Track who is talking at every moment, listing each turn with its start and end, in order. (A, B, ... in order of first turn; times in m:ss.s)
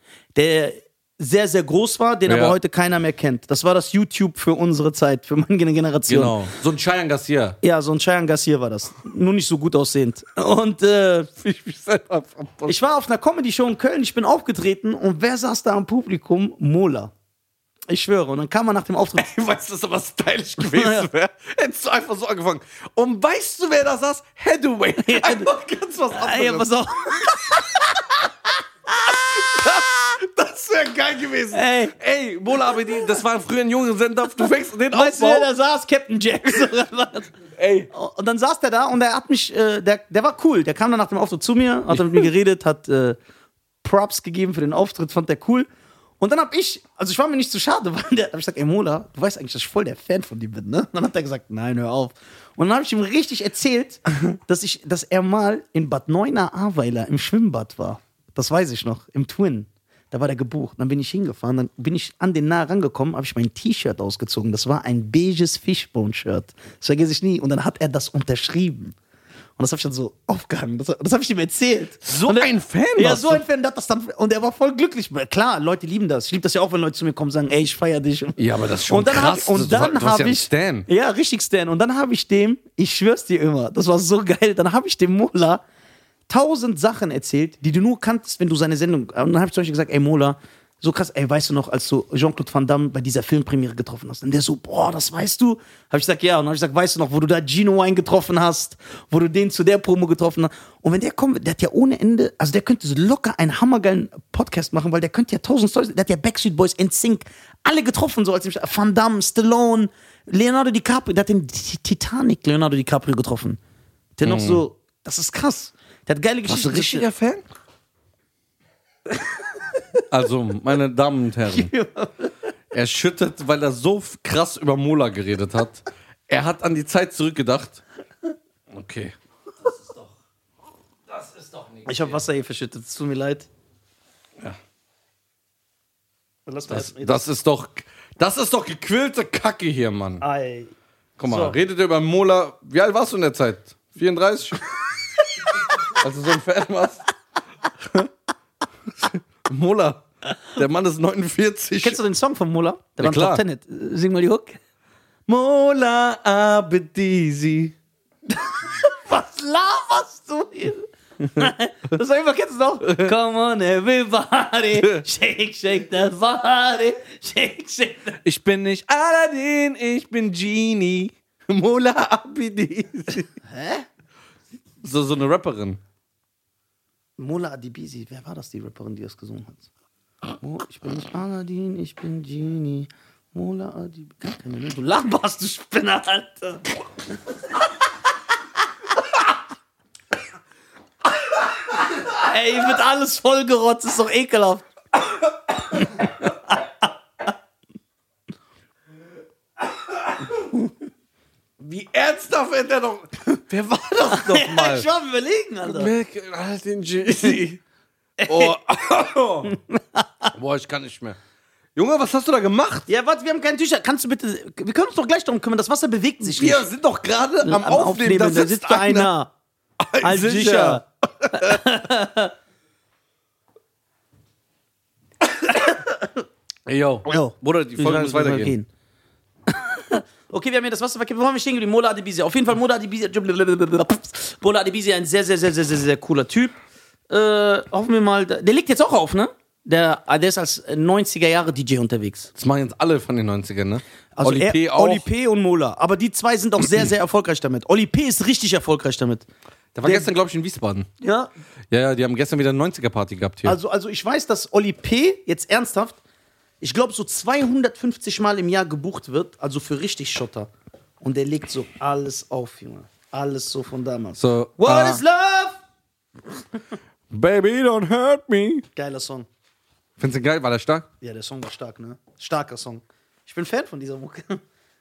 0:00.4-0:06.4 A
0:02.3-0:02.6 B
0:06.1-0:07.6 B
0:07.6-0:11.3 A
0:11.4-0:12.8 B
0:12.7-0:17.1 A
0:17.9-0:19.3 A
0:19.2-0:27.9 B
0:20.6-0:21.1 A
0:25.0-0:25.5 A
0:26.1-0:28.3 A
0:28.9-0:35.5 B
0:31.5-0:32.0 A
0:34.9-0:37.3 A
0:37.6-0:37.9 B
0:37.9-0:43.2 A
0:41.9-0:42.3 B
0:43.8-0:45.7 A
0:46.2-1:09.0 A
1:09.6-1:25.6 A
1:12.0-1:13.4 B
1:18.4-1:20.9 B
1:26.3-1:53.6 A
1:54.2-1:57.1 A
1:54.2-1:54.6 B
1:56.4-1:57.4 B
2:00.1-2:01.7 B
2:01.5-2:02.3 A
2:02.7-2:07.8 B
2:08.7-2:09.2 B
2:09.7-2:10.1 B
2:11.1-2:12.2 B
2:11.8-2:13.5 A
2:16.5-2:17.2 A
2:16.7-2:20.2 B
2:20.2-2:20.7 A
2:21.2-2:24.6 B
2:21.3-2:21.6 A
2:25.8-2:27.0 B
2:27.8-2:28.1 B
2:29.0-2:32.0 B
2:31.8-2:34.6 A
2:33.0-2:33.4 B
2:35.3-2:37.8 B
2:38.3-2:48.2 A
2:42.8-2:43.1 B
2:48.2-2:53.3 B
2:53.4-2:53.9 A
2:54.8-2:55.8 B
2:57.2-2:59.7 A
3:00.4-3:06.7 A
3:12.0-3:14.7 A
3:15.7-3:16.9 A
3:21.6-3:24.9 B
3:24.1-3:25.9 A
3:25.6-3:27.6 B
3:28.2-3:28.6 A
3:28.3-3:29.6 B
3:29.4-3:30.3 A
3:30.3-3:31.2 B
3:31.8-3:32.9 B
3:32.9-3:36.7 A
3:36.2-3:39.1 B
3:37.4-3:39.3 A
3:39.8-3:41.6 B
3:40.0-3:42.3 A
3:45.5-3:46.1 A
3:46.7-3:48.6 B
3:47.1-3:48.7 A
3:49.5-3:56.5 A
3:57.1-4:02.3 A
4:02.4-4:05.1 B
4:04.2-4:09.3 A
4:09.8-4:10.9 B
4:09.8-4:10.1 A
4:11.0-4:11.3 A
4:11.7-4:13.6 B
4:13.4-4:16.0 A
4:16.6-4:25.6 A
4:24.2-4:25.0 B
4:27.1-4:28.7 B
4:28.8-4:29.3 A
4:30.0-4:30.9 B
4:31.0-4:34.4 A